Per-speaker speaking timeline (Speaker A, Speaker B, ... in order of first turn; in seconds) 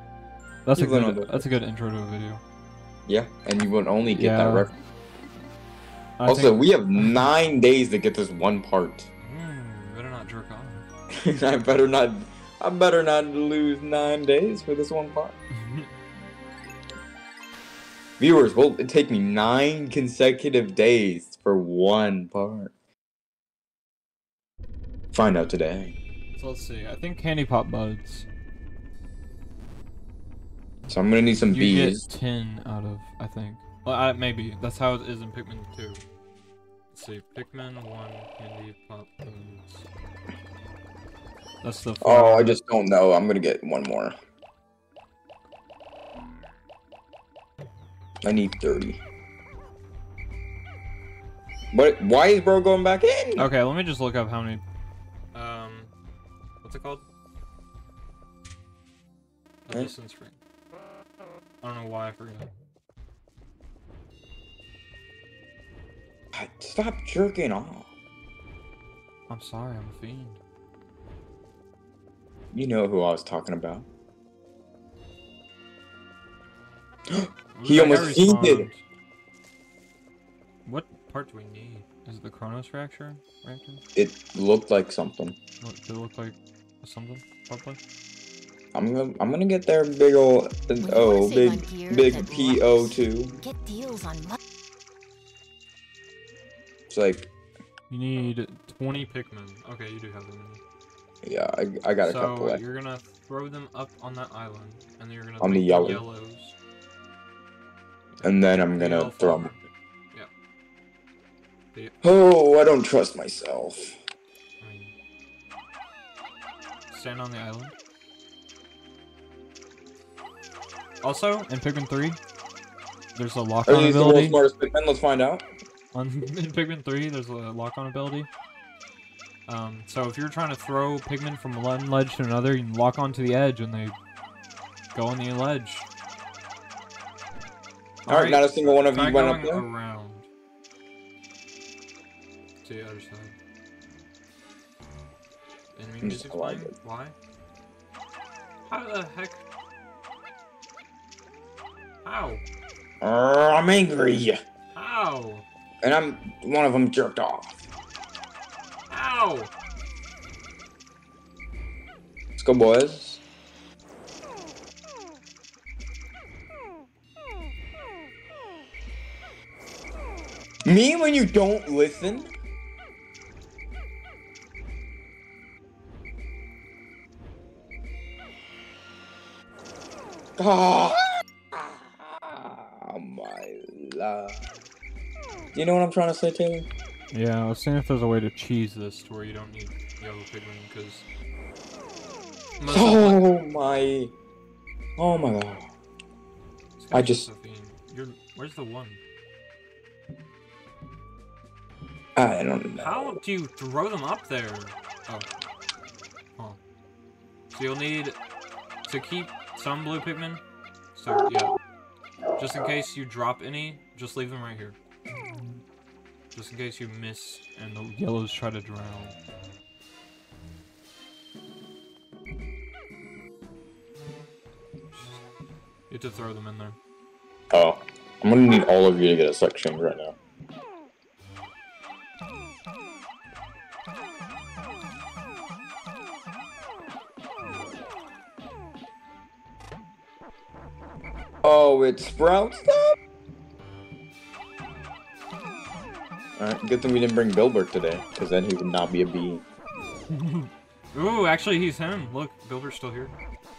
Speaker A: 0.7-2.4, 4.1-4.7, 6.2-7.2, 9.2-10.8, 15.5-15.9, 26.3-28.3, 31.5-36.0, 36.9-39.9, 41.6-42.6, 53.4-54.6, 55.3-55.9, 56.6-57.0, 59.6-60.4, 61.6-62.5, 69.3-70.4, 77.5-78.8, 80.6-83.8, 85.6-87.8, 97.9-100.6, 102.0-106.5, 108.1-110.3, 114.6-114.9, 116.9-117.7, 121.0-122.2, 123.1-124.4, 125.9-128.3, 129.5-133.9, 134.9-135.9, 138.1-140.3, 142.6-143.3, 145.7-147.1, 148.7-149.4, 152.0-152.4, 154.7-155.4, 158.9-159.5, 187.1-191.1, 192.6-193.2, 196.8-199.0, 202.8-205.3, 207.5-208.2, 208.8-210.4, 210.9-211.5, 212.4-214.8, 216.3-219.2, 224.9-225.2, 225.9-226.8, 250.1-253.1
Speaker B: 0.7-1.5, 3.0-4.8, 6.2-9.1, 11.2-15.3, 18.2-22.7, 25.1-25.9, 30.9-32.0, 42.0-44.1, 48.2-49.0, 51.7-53.5, 66.3-67.9, 72.5-73.9, 77.1-78.7, 83.9-85.4, 88.7-93.4, 96.9-97.3, 101.2-102.6, 105.4-106.0, 108.2-109.5, 112.0-113.9, 123.7-125.5, 138.1-139.7, 146.0-146.7, 153.0-154.4, 155.8-157.7, 162.3-163.2, 170.6-172.3, 180.4-184.5, 185.5-186.7, 192.7-194.1, 195.0-195.7, 196.9-197.3, 202.2-203.2, 227.5-230.2, 241.4-242.9, 246.4-249.4
Speaker C: 90.8-94.4